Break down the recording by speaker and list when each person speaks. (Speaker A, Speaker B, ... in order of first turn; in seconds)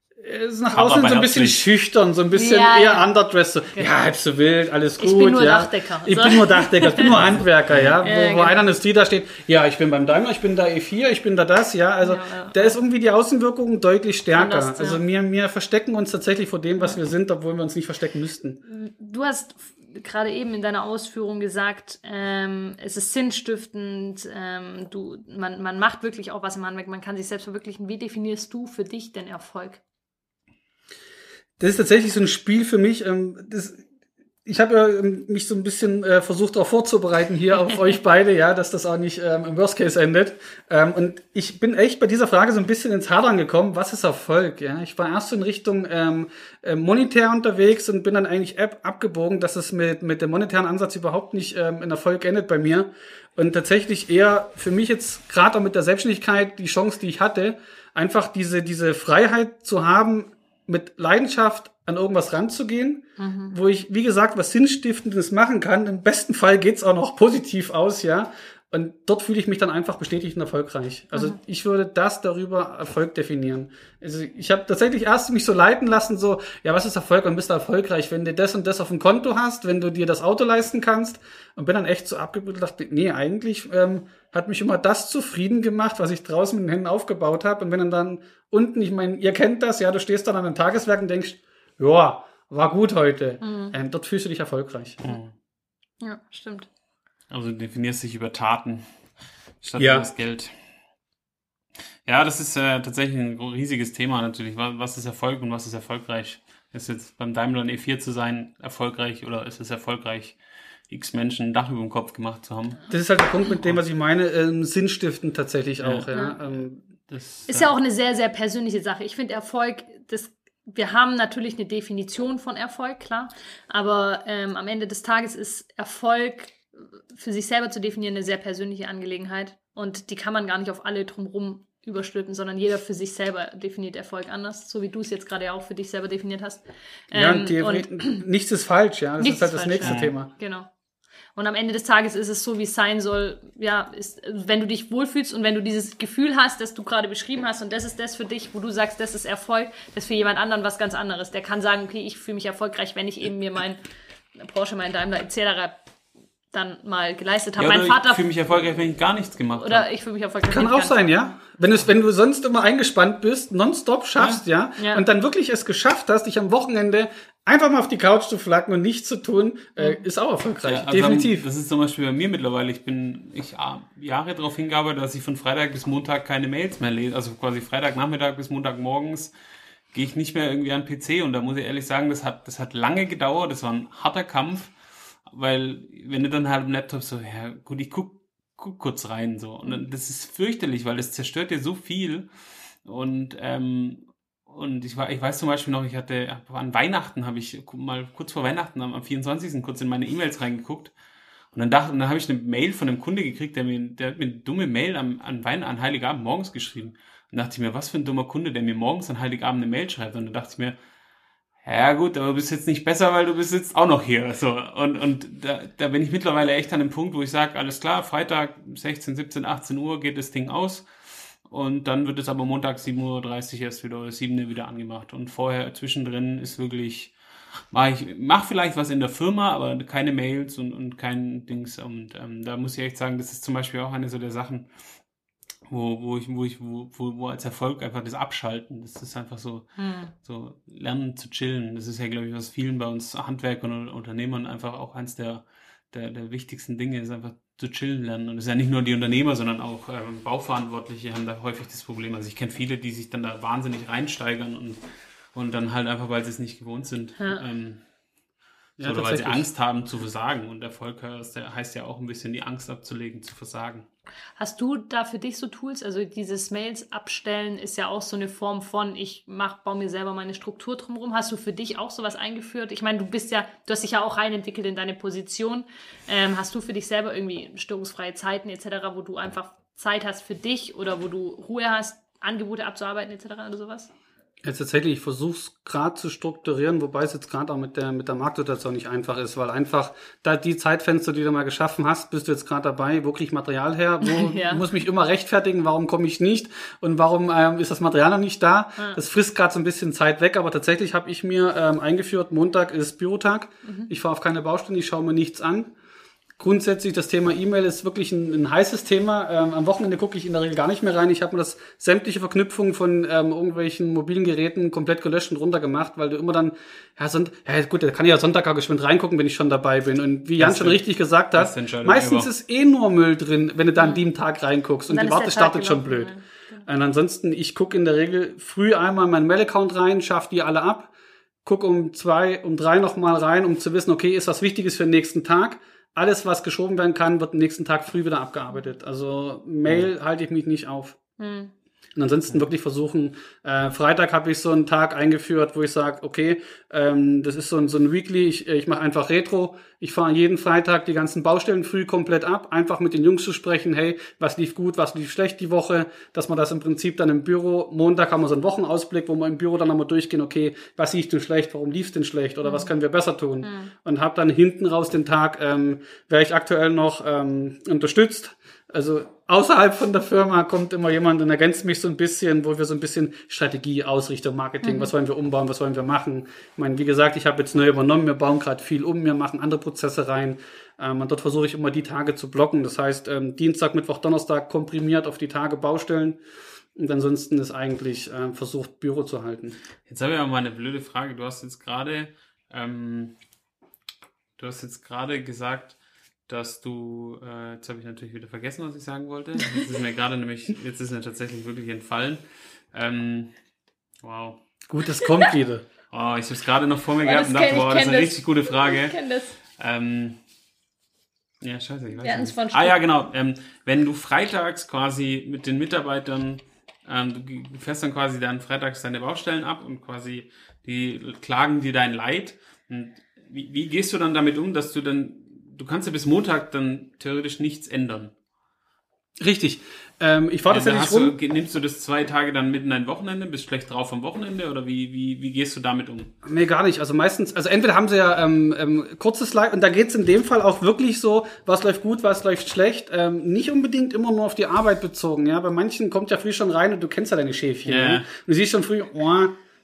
Speaker A: 0.2-18.6, 31.6-33.8, 34.5-95.0, 99.8-100.1, 112.9-116.8, 137.1-140.3, 160.5-171.5, 258.8-259.4, 284.4-305.7, 306.4-326.1, 326.7-330.9, 331.4-341.0, 341.9-386.2, 386.8-389.6, 404.7-405.6, 429.2-431.1, 436.2-449.3
Speaker B: 0.8-1.6, 7.0-8.0, 95.0-95.3, 97.3-98.8, 99.6-100.5, 102.1-110.4, 110.9-112.9, 115.8-116.6, 117.1-117.7, 139.8-140.1, 157.6-159.9, 170.6-179.3, 179.9-184.7, 185.3-192.3, 192.8-200.9, 201.5-210.8, 211.6-220.9, 221.4-227.1, 227.7-234.7, 235.7-254.8, 255.3-257.8, 258.8-263.9, 320.4-320.8, 321.3-322.3, 389.9-393.1, 394.4-395.8, 396.3-403.3, 404.0-404.4, 405.9-409.0, 409.5-410.2, 411.4-428.1, 430.5-436.1, 447.7-448.1
Speaker C: 2.3-3.1, 5.0-7.2, 8.0-8.6, 12.0-12.8, 14.3-15.0, 18.7-29.8, 63.2-63.5, 93.4-93.8, 96.0-96.7, 116.1-116.4, 117.5-138.2, 139.2-140.7, 141.4-153.8, 154.4-155.8, 156.5-158.3, 159.6-161.4, 164.8-165.1, 239.8-240.1, 264.4-283.9, 294.0-294.6, 303.6-303.9, 323.8-324.0, 324.9-326.6, 341.2-341.5, 362.4-362.7, 363.4-363.7, 374.6-374.9, 407.0-409.4, 412.0-412.8